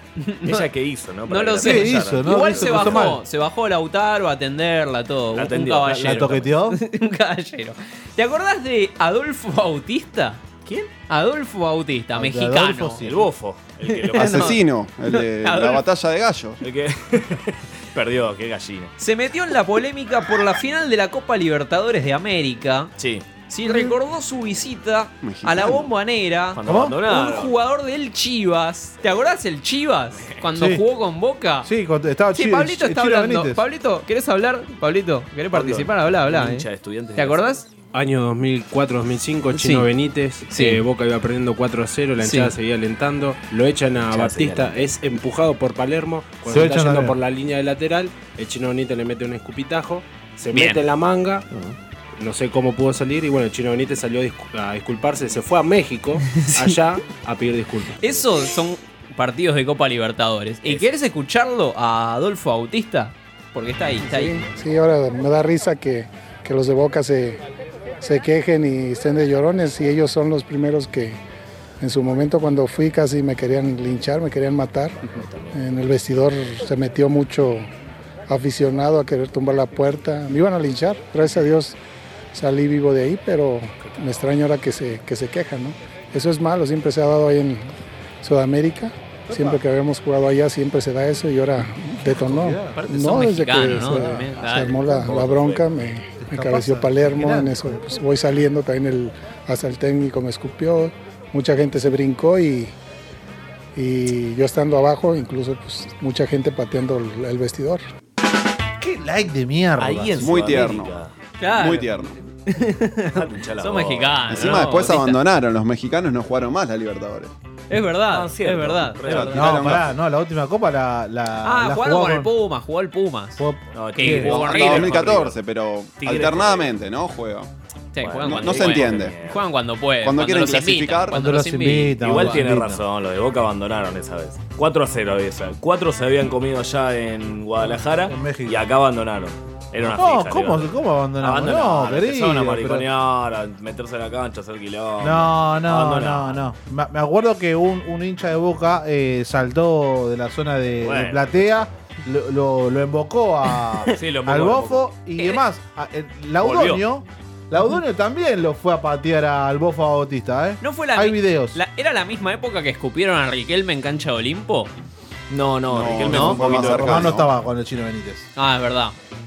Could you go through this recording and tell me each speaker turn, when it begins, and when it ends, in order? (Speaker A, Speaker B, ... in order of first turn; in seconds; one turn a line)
Speaker A: 0.2-0.6
Speaker B: 0.4-3.1
Speaker A: 1.3-10.4
Speaker C: 1.6-3.2
Speaker B: 5.3-6.5
Speaker C: 6.0-6.8
Speaker A: 11.1-13.0
Speaker C: 12.1-13.3
Speaker B: 13.0-14.6
Speaker A: 13.8-14.6
Speaker D: 14.1-16.6
Speaker A: 15.1-15.8
Speaker B: 16.6-18.9
Speaker A: 19.0-22.9
Speaker B: 23.0-23.2
Speaker A: 23.5-31.7
Speaker C: 23.7-23.9
Speaker D: 25.2-25.9
Speaker B: 26.5-27.5
Speaker C: 26.7-26.9
Speaker C: 30.5-30.8
Speaker C: 31.6-33.6
Speaker A: 32.3-37.7
Speaker B: 35.5-37.4
Speaker E: 37.9-51.5
Speaker A: 39.5-39.9
Speaker A: 40.5-40.8
Speaker A: 42.2-42.5
Speaker B: 44.1-44.8
Speaker C: 46.5-47.1
Speaker E: 52.1-58.0
Speaker A: 56.4-56.6
Speaker A: 58.0-64.4
Speaker F: 64.1-67.4
Speaker F: 68.0-71.2
Speaker F: 71.8-77.7
Speaker B: 75.0-75.7
Speaker F: 78.3-81.8
Speaker F: 82.3-102.7
Speaker B: 83.8-84.2
Speaker C: 89.3-89.6
Speaker C: 92.0-92.8
Speaker A: 92.8-94.9
Speaker C: 93.6-94.3
Speaker B: 94.4-95.9
Speaker C: 96.2-98.0
Speaker F: 103.7-107.8
Speaker C: 108.8-110.3
Speaker B: 109.8-111.1
Speaker D: 110.2-111.0
Speaker A: 111.4-111.9
Speaker D: 111.5-112.2
Speaker A: 112.5-115.2
Speaker B: 113.1-114.7
Speaker D: 114.3-117.3
Speaker A: 117.7-119.3
Speaker B: 118.1-119.8
Speaker D: 119.0-119.9
Speaker C: 119.1-122.3
Speaker A: 121.4-123.4
Speaker C: 123.4-124.3
Speaker B: 123.7-125.4
Speaker A: 123.9-124.9
Speaker D: 124.3-127.5
Speaker B: 126.0-126.7
Speaker A: 127.9-132.4
Speaker B: 128.0-129.4
Speaker D: 128.3-129.1
Speaker D: 130.0-131.2
Speaker C: 131.1-132.8
Speaker B: 132.0-146.5
Speaker C: 137.7-138.6
Speaker C: 139.8-142.8
Speaker C: 145.0-161.6
Speaker B: 150.8-151.5
Speaker B: 153.9-154.9
Speaker B: 156.4-156.8
Speaker A: 160.6-164.7
Speaker B: 165.3-167.2
Speaker D: 165.7-167.3
Speaker A: 166.1-166.4
Speaker C: 166.2-168.3
Speaker A: 168.3-169.0